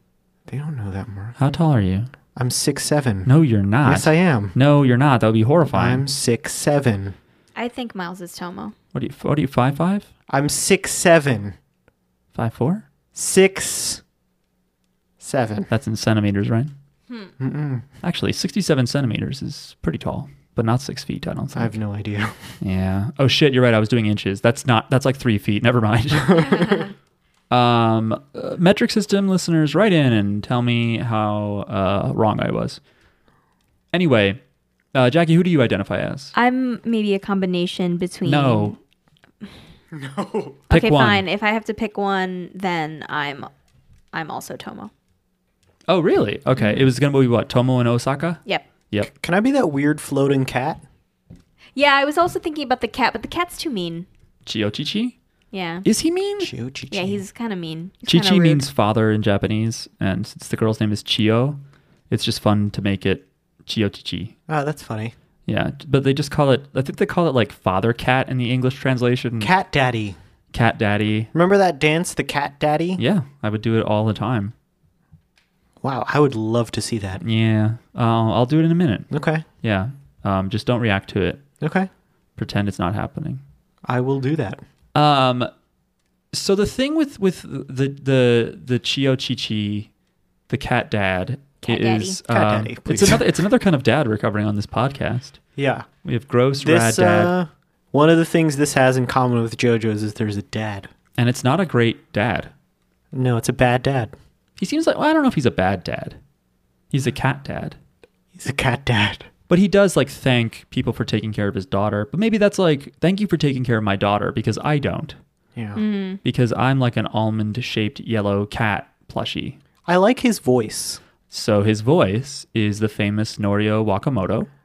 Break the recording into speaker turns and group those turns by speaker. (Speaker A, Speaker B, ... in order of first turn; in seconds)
Speaker A: 0.5-1.4, 2.3-3.3, 3.8-4.5, 5.7-7.2, 10.3-11.6, 13.1-14.0, 15.2-15.7, 17.4-17.9, 21.5-22.6, 39.9-40.6, 49.1-50.8, 56.4-57.2, 64.5-65.1, 69.4-70.2, 71.3-73.0, 75.8-77.2, 79.1-79.4, 81.6-81.9, 83.8-84.6, 92.3-93.2, 95.5-95.9, 96.6-100.9, 103.1-104.1, 108.3-109.3, 115.5-115.8, 119.8-121.0
Speaker B: 1.4-2.1, 3.2-6.0, 8.9-10.1, 12.3-12.8, 15.7-16.7, 18.0-21.8, 22.6-26.7, 27.5-32.8, 33.9-34.4, 34.9-36.3, 38.2-38.8, 40.7-41.2, 45.9-49.1, 54.4-55.1, 55.8-56.5, 58.0-61.6, 62.1-64.3, 65.5-69.5, 70.5-71.3, 73.0-74.5, 77.2-79.1, 79.6-81.4, 82.3-83.4, 84.9-85.5, 86.3-89.9, 90.5-95.4, 96.0-97.3, 101.2-102.5, 104.6-106.2, 106.9-107.8, 109.5-115.2, 116.2-119.6, 121.3-124.5
Speaker C: 7.5-8.7, 36.3-38.8, 40.7-43.5, 44.1-44.9, 51.8-54.0, 55.5-55.9, 56.9-58.6, 91.6-92.2, 115.7-116.2